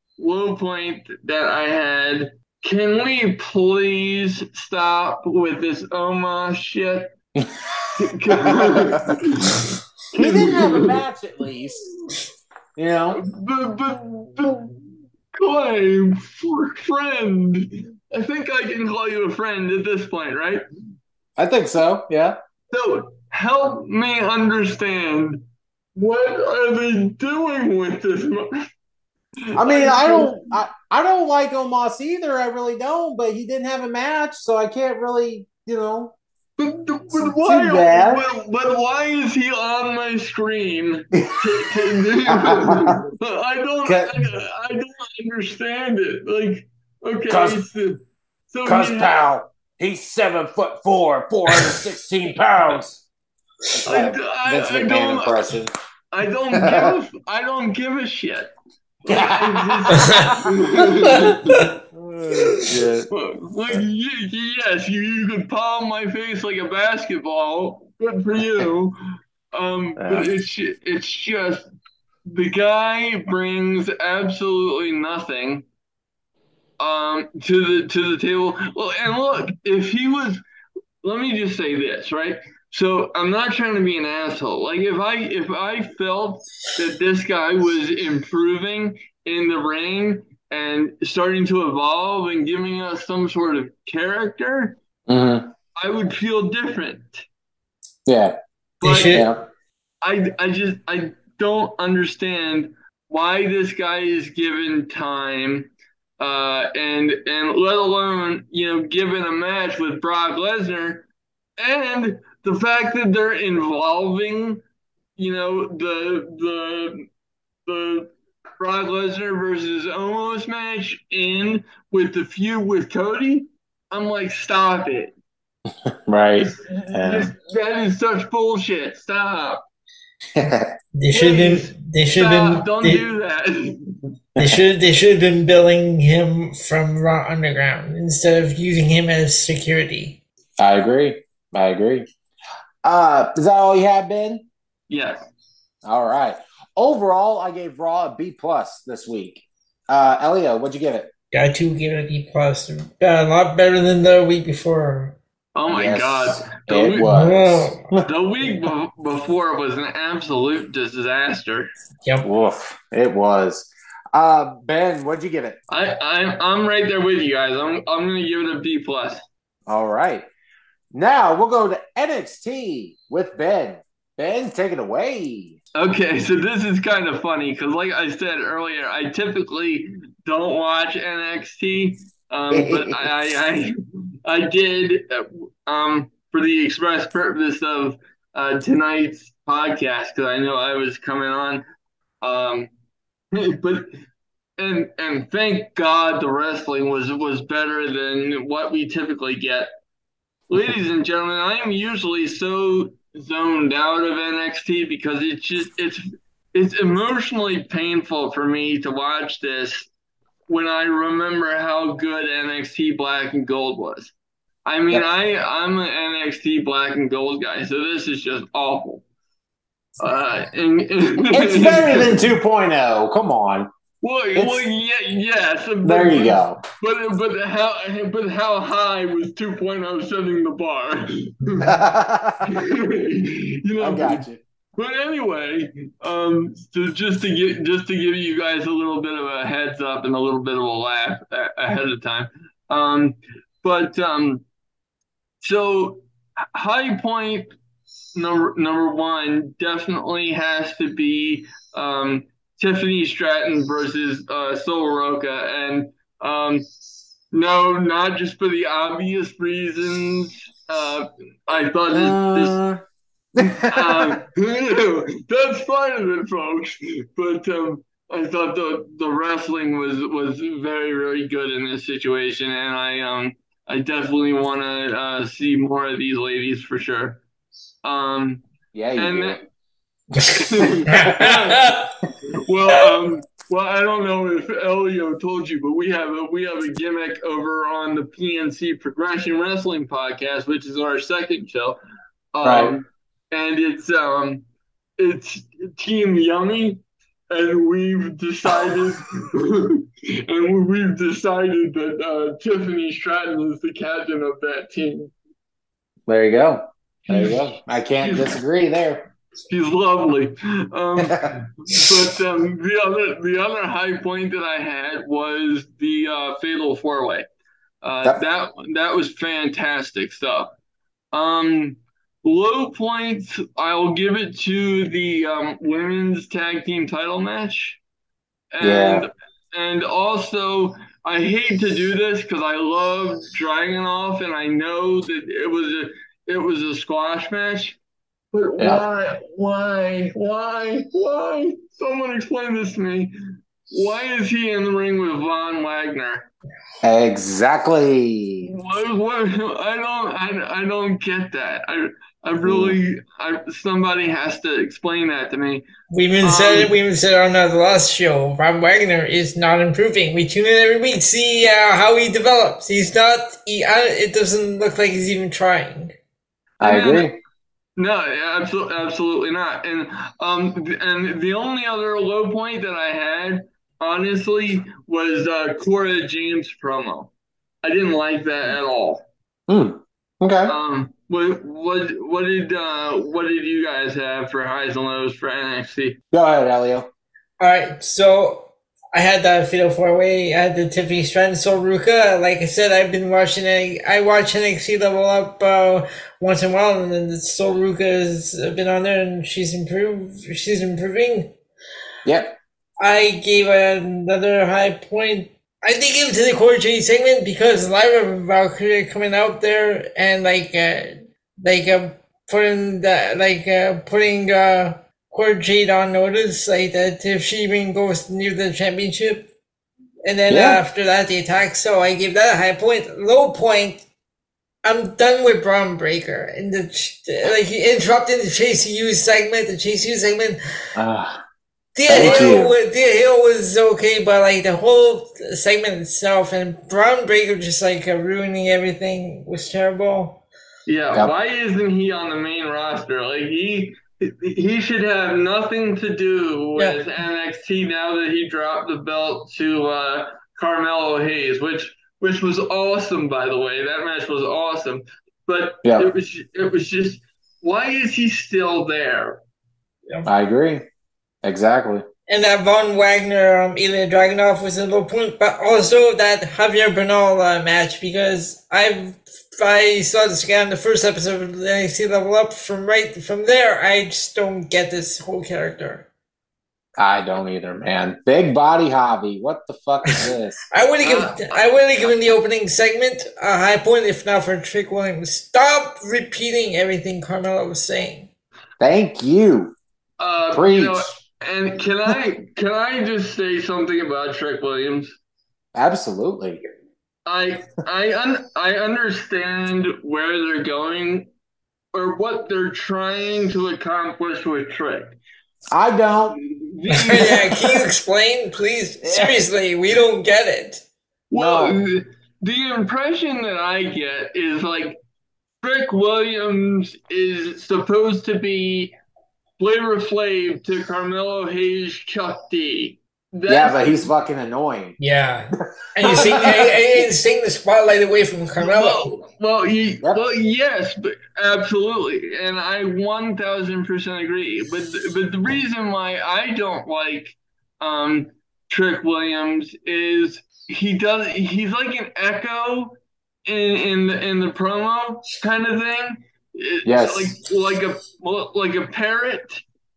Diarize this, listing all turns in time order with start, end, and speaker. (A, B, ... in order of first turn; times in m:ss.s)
0:00.2-0:07.1 A
0:08.0-0:10.9 A
0:08.3-0:09.1 B
0:10.2-0:11.8 B
0:12.8-0:13.2 B
0:13.1-0:20.6 A
0:21.4-0:22.4 B
0:22.7-0:25.4 A
0:26.0-0:28.6 A
0:29.5-0:30.3 A
0:29.6-0:36.2 B
0:36.6-0:49.3 A
0:37.1-0:38.3 B
0:41.2-0:43.0 B
0:43.8-0:44.1 B
0:47.3-0:47.6 B
0:48.6-0:53.0 B
0:53.8-0:55.7 B
0:53.9-0:55.4 A
0:56.1-0:58.5 A
0:56.5-0:56.9 B
0:59.0-1:01.5 A
0:59.1-1:00.5 B
1:01.9-1:03.1 B
1:03.1-1:09.0 A
1:09.5-1:11.7 A
1:10.0-1:10.3 B
1:12.3-1:15.6 A
1:16.8-1:20.4 A
1:21.0-1:34.8 A
1:35.1-1:35.5 B
1:35.8-1:37.2 A
1:38.1-1:38.4 B
1:38.8-1:39.2 A
1:38.8-1:39.3 C
1:39.1-1:39.4 B
1:40.0-1:51.1 A
1:51.6-1:54.6 A
1:55.2-1:57.0 A
1:57.6-2:05.2 A
2:05.8-2:07.3 B
2:06.4-2:09.7 A
2:10.4-2:10.7 B
2:10.9-2:13.0 C
2:11.1-2:14.0 A
2:14.4-2:20.2 C
2:20.6-2:22.1 B
2:22.8-2:24.4 B
2:24.9-2:25.2 A
2:25.8-2:31.1 B
2:31.3-2:35.2 C
2:35.5-2:37.1 A
2:35.7-2:38.1 B
2:37.1-2:37.8 C
2:38.0-2:41.7 A
2:42.2-2:45.6 B
2:45.7-2:49.2 A
2:49.7-2:50.3 B
2:50.9-2:55.6 B
2:55.8-3:11.6 A
3:02.5-3:03.1 B
3:12.2-3:12.7 A
3:13.3-3:13.9 A
3:14.6-3:19.7 A
3:20.5-3:29.9 A
3:30.5-3:34.1 A
3:34.6-3:39.0 A
3:40.0-3:42.2 A
3:41.3-3:43.7 B
3:44.0-3:51.8 A
3:44.3-3:44.6 B
3:45.8-3:46.6 B
3:51.6-3:52.5 B
3:52.5-3:54.2 A
3:53.8-3:54.4 B
3:54.8-4:04.4 A
4:05.4-4:06.0 A
4:06.5-4:07.5 A
4:08.1-4:16.7 A
4:17.3-4:22.6 A
4:21.9-4:22.8 B
4:23.3-4:24.2 B
4:23.7-4:37.2 A
4:37.8-4:38.4 A
4:38.7-4:39.4 B
4:39.0-4:39.4 A
4:40.3-4:41.3 A
4:40.8-4:41.7 B
4:40.9-4:41.9 C
4:42.4-4:51.8 A
4:52.3-4:54.4 A
4:52.4-4:52.7 B
4:55.0-5:05.1 A
5:06.1-5:09.1 B
5:07.1-5:07.4 A
5:08.0-5:08.4 A
5:09.5-5:17.3 A
5:11.0-5:11.3 B
5:17.8-5:20.5 A
5:21.1-5:27.8 A
5:28.5-5:37.8 A
5:28.6-5:29.1 B
5:38.3-5:43.1 A
5:38.6-5:38.8 B
5:43.7-5:46.3 A
5:46.8-5:48.5 B
5:48.4-5:55.6 A
5:52.4-5:52.8 B
5:55.9-6:05.9 C
5:56.2-5:56.7 A
6:06.6-6:07.1 A
6:06.6-6:07.2 B
6:07.8-6:17.1 A
6:17.6-6:19.0 A
6:19.5-6:20.5 B
6:20.4-6:26.0 A
6:26.1-6:26.9 B
6:27.4-6:41.3 C
6:42.0-6:42.3 B
6:42.8-6:59.3 C
7:00.0-7:03.8 C
7:00.3-7:00.6 B
7:04.6-7:10.4 C
7:10.7-7:11.2 B
7:11.7-7:20.2 C
7:11.9-7:12.5 B
7:11.9-7:12.4 A
7:20.6-7:39.2 A
7:35.6-7:35.9 B
7:40.0-7:40.6 B
7:41.2-7:41.8 B
7:42.1-7:55.8 C
7:56.8-8:00.4 B
7:59.9-8:08.1 C
8:00.8-8:01.5 A
8:08.6-8:09.6 B
8:10.0-8:15.0 A
8:10.3-8:11.0 B
8:15.5-8:16.4 B
8:17.0-8:21.1 A
8:21.7-8:25.0 A
8:25.5-8:26.2 B
8:26.2-8:27.2 A
8:26.7-8:30.6 C
8:26.9-8:27.6 B
8:28.8-8:29.2 B
8:31.1-8:34.8 A
8:31.1-8:31.6 B
8:35.4-8:38.7 A
8:39.4-8:43.9 A
8:43.3-8:44.8 B
8:44.8-8:48.8 C
8:45.8-8:46.5 B
8:48.4-9:09.4 A
9:06.6-9:07.2 B